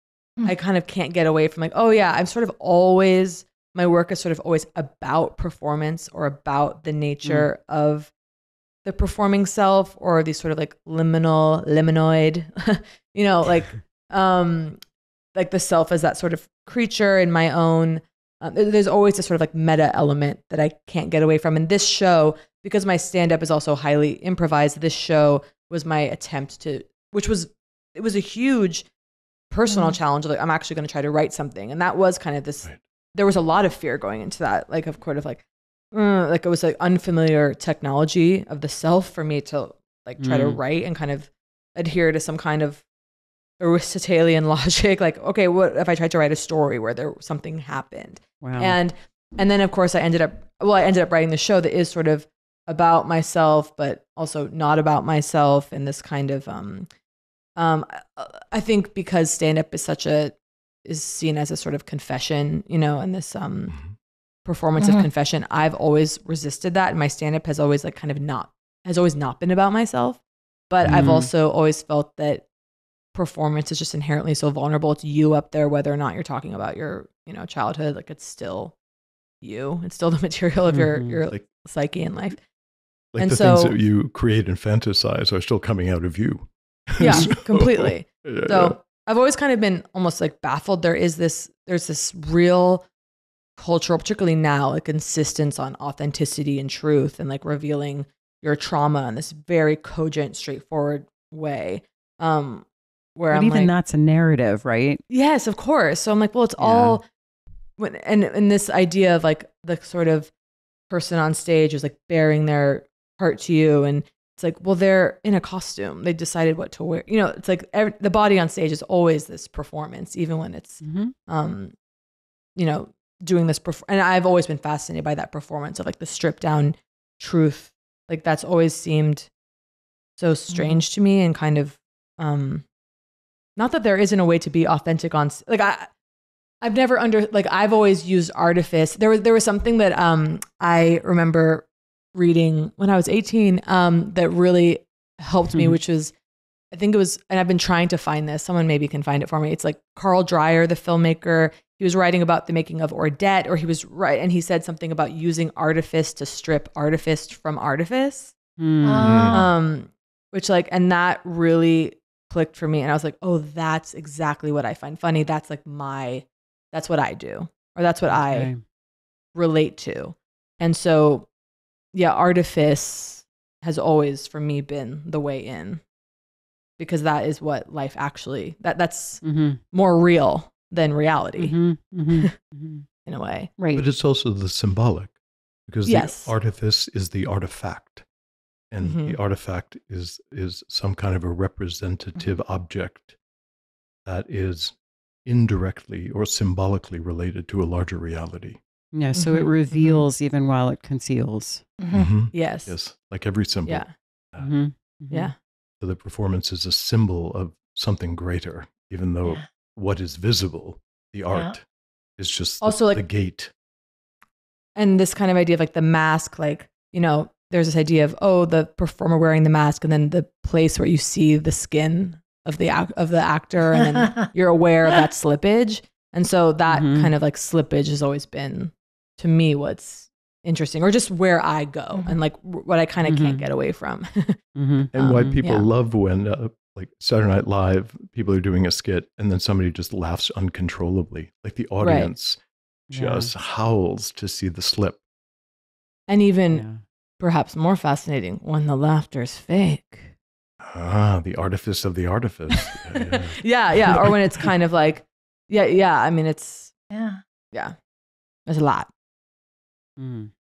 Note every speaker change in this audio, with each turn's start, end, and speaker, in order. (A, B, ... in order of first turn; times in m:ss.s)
0:00.4-0:08.1 A
0:08.8-0:14.8 A
0:15.3-0:28.8 A
0:29.5-0:42.8 A
0:40.2-0:40.6 B
0:43.6-0:56.9 A
0:48.4-0:48.8 B
0:57.6-1:03.8 A
1:04.4-1:12.4 A
1:04.8-1:05.1 C
1:10.8-1:11.3 B
1:13.1-1:18.7 A
1:19.4-1:22.4 A
1:20.7-1:21.2 B
1:23.1-1:28.8 D
1:23.2-1:23.8 A
1:27.0-1:32.8 A
1:27.0-1:27.3 B
1:33.6-1:43.7 A
1:43.3-1:45.0 B
1:45.1-1:47.0 A
1:46.6-1:47.0 B
1:47.8-1:50.3 A
1:50.9-2:01.7 A
2:00.8-2:01.1 B
2:02.6-2:09.3 A
2:10.2-2:12.6 A
2:10.5-2:10.8 C
2:13.6-2:15.9 A
2:16.6-2:26.1 A
2:26.7-2:38.3 A
2:38.6-2:39.4 B
2:38.8-2:39.5 C
2:39.0-2:39.4 D
2:39.3-2:48.5 A
2:48.1-2:48.6 B
2:49.3-2:51.3 A
2:51.9-2:55.8 A
2:56.8-3:01.6 A
2:59.2-2:59.6 B
3:01.4-3:02.9 B
3:03.0-3:03.5 A
3:03.6-3:03.8 B
3:03.7-3:05.2 D
3:05.7-3:08.0 D
3:05.8-3:06.3 A
3:08.7-3:13.2 D
3:08.8-3:09.2 A
3:14.0-3:18.6 D
3:18.9-3:21.6 B
3:19.1-3:20.0 A
3:21.8-3:22.1 C
3:21.9-3:24.5 D
3:22.3-3:22.8 A
3:23.6-3:23.9 A
3:24.4-3:25.3 B
3:25.1-3:25.4 A
3:25.8-3:31.6 D
3:32.2-3:33.5 D
3:32.6-3:33.0 A
3:34.8-3:54.4 A
3:43.8-3:44.3 C
3:46.7-3:47.1 B
3:53.0-3:53.5 B
3:54.6-3:54.9 B
3:54.9-4:05.0 D
3:55.0-3:55.7 A
4:01.8-4:02.1 A
4:02.9-4:03.3 B
4:06.1-4:06.6 A
4:06.5-4:06.8 B
4:07.2-4:10.1 A
4:10.6-4:14.4 D
4:12.5-4:16.7 A
4:16.9-4:17.2 C
4:18.4-4:18.9 A
4:20.0-4:20.3 B